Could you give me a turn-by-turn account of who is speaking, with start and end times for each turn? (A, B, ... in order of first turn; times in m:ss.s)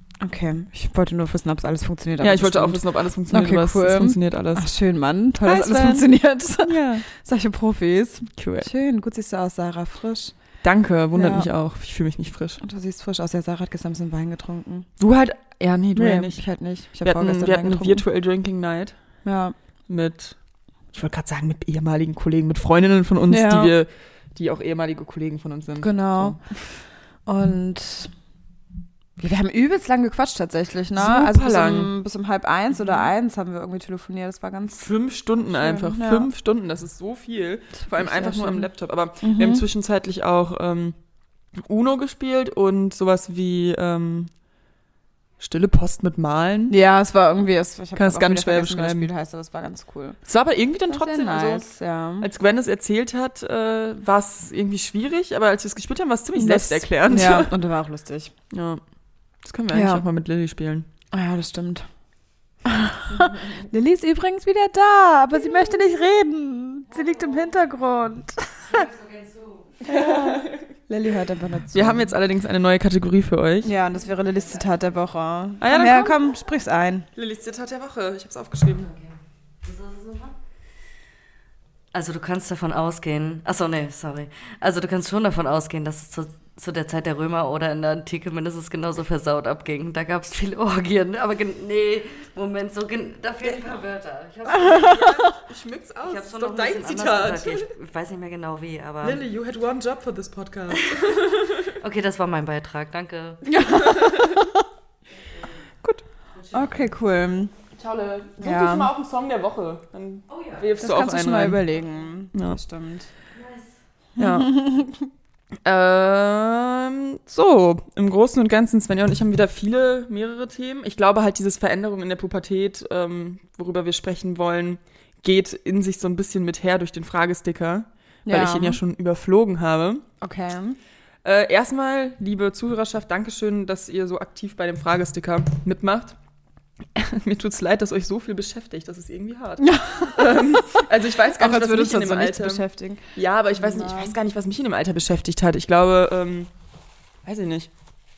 0:00.2-0:10.3 A
0:02.2-0:04.7 B
0:05.4-0:07.0 B
0:08.4-0:08.7 B
0:10.6-0:12.6 B
0:11.1-0:11.5 A
0:12.6-0:14.9 A
0:15.0-0:16.4 B
0:15.9-0:18.0 A
0:17.0-0:18.9 B
0:19.2-0:19.5 A
0:19.9-0:20.4 B
0:20.9-0:26.5 B
0:23.3-0:23.7 A
0:25.8-0:26.4 A
0:27.2-0:28.1 A
0:29.2-0:34.8 A
0:30.9-0:31.9 B
0:34.7-0:41.0 B
0:35.5-0:36.3 A
0:37.8-0:38.7 A
0:39.2-0:39.6 A
0:41.6-0:44.3 B
0:45.4-0:46.7 B
0:46.7-0:50.2 A
0:47.9-0:49.1 B
0:50.3-0:51.7 B
0:50.9-0:52.3 A
0:52.2-0:57.5 B
0:56.3-0:58.3 A
0:58.5-0:58.8 B
0:59.4-1:00.9 B
0:59.7-1:00.0 A
1:01.1-1:01.9 A
1:02.6-1:08.9 A
1:03.2-1:03.4 B
1:08.7-1:09.8 C
1:09.8-1:12.1 A
1:09.8-1:10.6 B
1:11.7-1:13.7 B
1:13.6-1:17.1 A
1:15.6-1:16.3 B
1:17.1-1:18.9 B
1:18.8-1:20.4 C
1:21.9-1:35.2 C
1:33.4-1:33.8 B
1:34.6-1:35.3 A
1:34.7-1:37.7 B
1:36.0-1:39.2 C
1:39.0-1:41.8 B
1:40.8-1:41.0 C
1:41.7-1:43.6 C
1:43.5-1:44.6 A
1:43.8-1:44.4 B
1:46.5-1:47.5 A
1:47.7-1:51.6 B
1:48.4-1:48.9 A
1:50.8-1:53.1 A
1:52.3-1:52.6 B
1:53.3-1:53.7 C
1:54.2-1:54.5 B
1:54.2-1:55.1 A
1:55.6-2:10.0 B
2:08.2-2:08.8 A
2:10.2-2:10.8 A
2:11.2-2:16.2 B
2:16.9-2:26.5 B
2:19.6-2:24.1 A
2:27.2-2:27.7 B